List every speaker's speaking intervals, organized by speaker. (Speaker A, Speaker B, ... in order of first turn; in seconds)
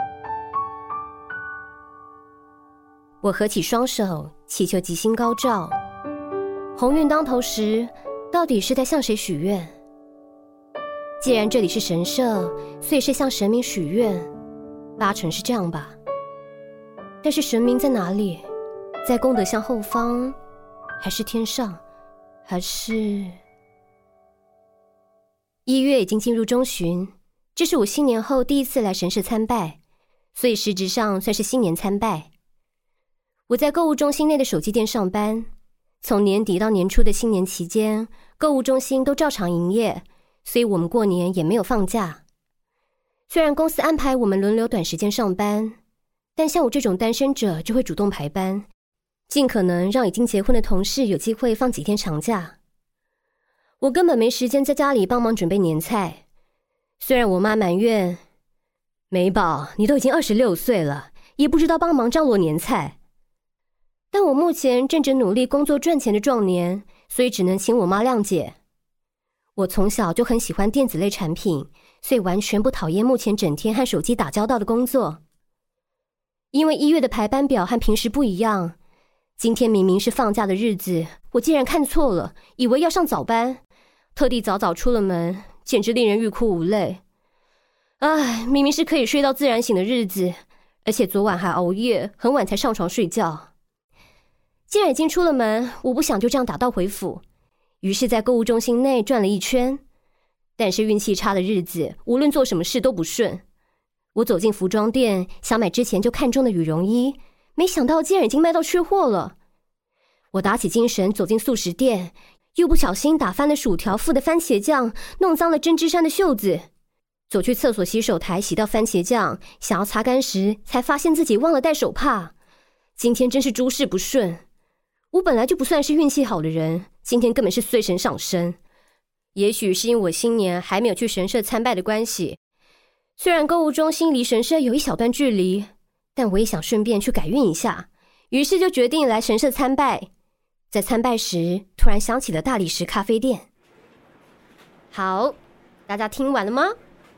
Speaker A: 3.2-5.8, 6.8-9.7, 11.2-14.3, 15.0-15.9, 17.2-18.4, 19.0-20.4, 21.0-21.8, 22.4-23.4, 25.6-29.8, 30.3-32.3, 33.5-35.5, 36.0-42.2, 43.3-45.8, 46.4-48.7, 49.3-52.5, 53.8-56.2, 57.0-58.2, 59.1-63.0, 64.1-68.5, 69.6-75.2, 76.5-78.7, 79.4-83.6, 84.2-87.0, 88.0-93.5, 94.7-97.2, 97.8-99.8, 100.6-103.4, 104.1-109.3, 110.3-116.7, 117.3-122.3, 123.0-124.4, 125.1-128.6, 129.3-132.4, 133.2-140.1, 140.7-143.5, 144.9-145.3, 145.9-146.7